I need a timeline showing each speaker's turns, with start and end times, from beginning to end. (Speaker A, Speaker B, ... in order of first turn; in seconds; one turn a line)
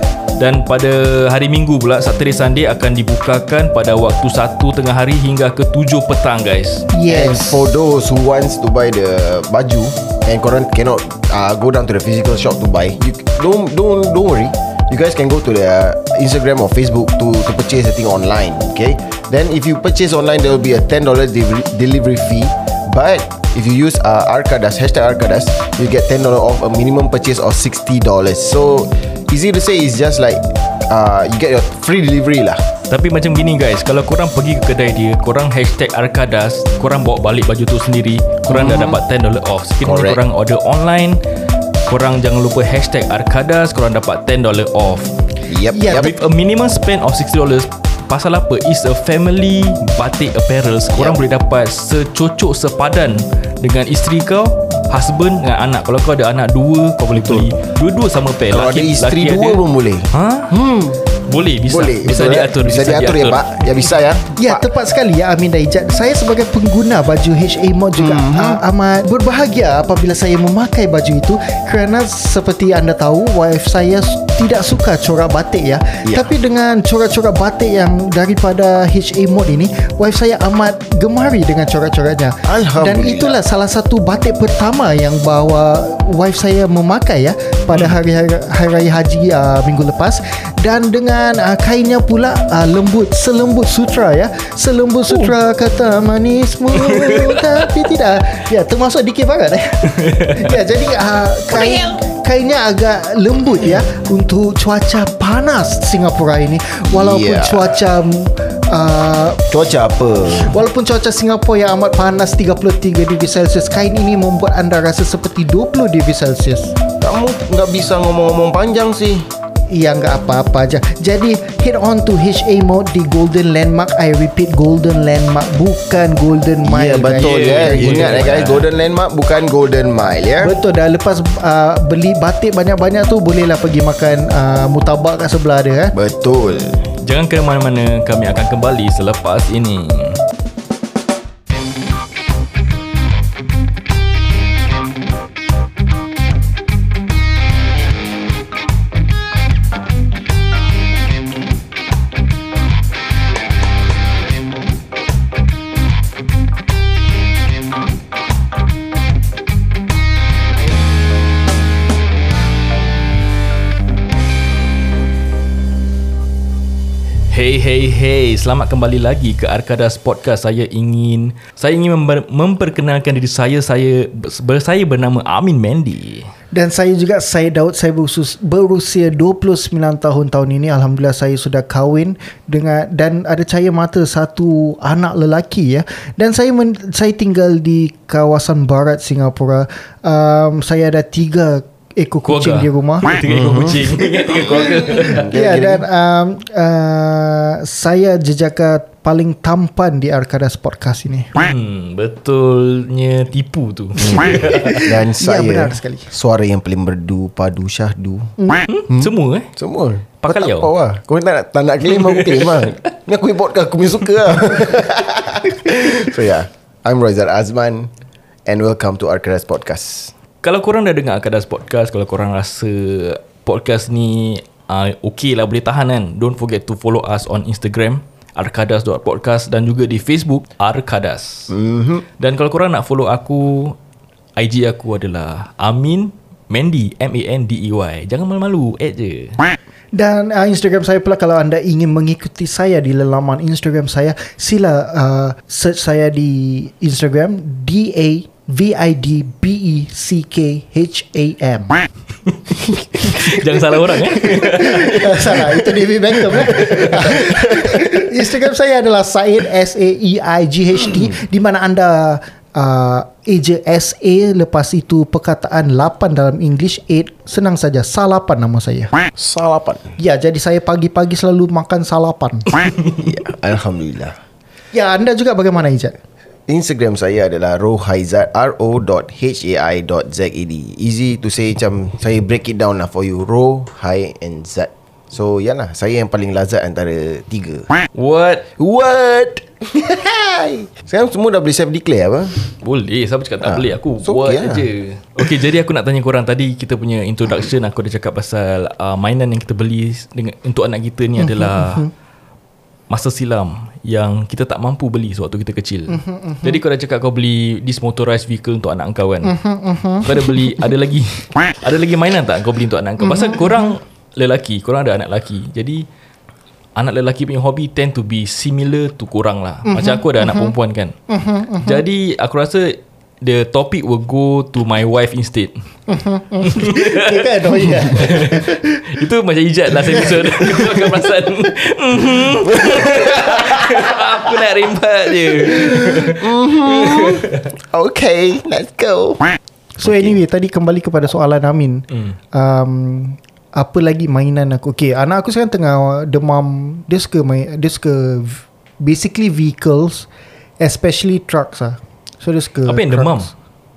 Speaker A: 0.4-6.9
Speaker B: 6.9-7.7
Speaker C: 7.1-32.6
Speaker A: 32.9-41.2
Speaker C: 38.5-39.0
Speaker C: 39.8-40.2
Speaker A: 41.9-45.1
Speaker C: 45.5-46.1
Speaker B: 45.7-46.1
Speaker A: 45.9-60.5
Speaker C: 50.9-51.2
Speaker C: 57.1-57.5
Speaker C: 58.5-61.0
Speaker A: 61.3-63.6
Speaker C: 61.7-64.7
Speaker B: 64.4-109.5
Speaker C: 68.0-68.6
Speaker C: 76.0-76.3
Speaker C: 82.5-83.4
Speaker A: 96.9-97.4
Speaker C: 106.9-107.8
Speaker C: 109.5-110.6
Speaker B: 110.3-116.8
Speaker C: 117.0-119.3
Speaker B: 119.7-128.2
Speaker C: 126.6-130.6
Speaker A: 127.2-128.7
Speaker B: 130.4-136.0
Speaker C: 135.9-136.9
Speaker A: 137.0-140.2
Speaker A: 167.3-176.3
Speaker B: 176.5-193.1
Speaker A: 192.3-195.2
Speaker C: 193.3-195.9
Speaker B: 195.2-201.3
Speaker A: 201.4-204.8
Speaker B: 204.2-206.1
Speaker C: 204.8-208.3
Speaker B: 208.4-208.6
Speaker A: 208.7-209.5
Speaker C: 208.9-217.9
Speaker A: 210.2-210.7
Speaker A: 212.0-212.7
Speaker C: 218.5-220.1
Speaker A: 220.4-231.5
Speaker C: 231.5-232.0
Speaker A: 232.2-233.8
Speaker A: 234.4-239.4
Speaker B: 239.9-251.8
Speaker A: 252.9-255.4
Speaker B: 253.0-268.9
Speaker A: 256.5-256.9
Speaker C: 256.6-257.6
Speaker C: 269.2-269.9
Speaker B: 270.0-272.5
Speaker C: 272.9-274.2
Speaker B: 274.7-276.0
Speaker C: 276.5-287.7
Speaker A: 287.9-288.5
Speaker C: 288.6-292.4
Speaker A: 292.6-301.9
Speaker C: 293.4-294.7
Speaker B: 301.2-301.9
Speaker A: 302.9-309.4
Speaker B: 305.9-306.6
Speaker B: 309.2-310.7
Speaker A: 310.0-315.8
Speaker B: 313.0-313.7
Speaker A: 316.8-320.9
Speaker B: 319.7-320.5
Speaker B: 321.1-321.8
Speaker A: 321.6-325.6
Speaker B: 325.9-328.9
Speaker A: 326.4-337.4
Speaker C: 332.5-333.8
Speaker C: 335.5-339.3
Speaker B: 339.8-350.1
Speaker C: 339.8-340.2
Speaker B: 350.6-353.3
Speaker A: 352.7-353.3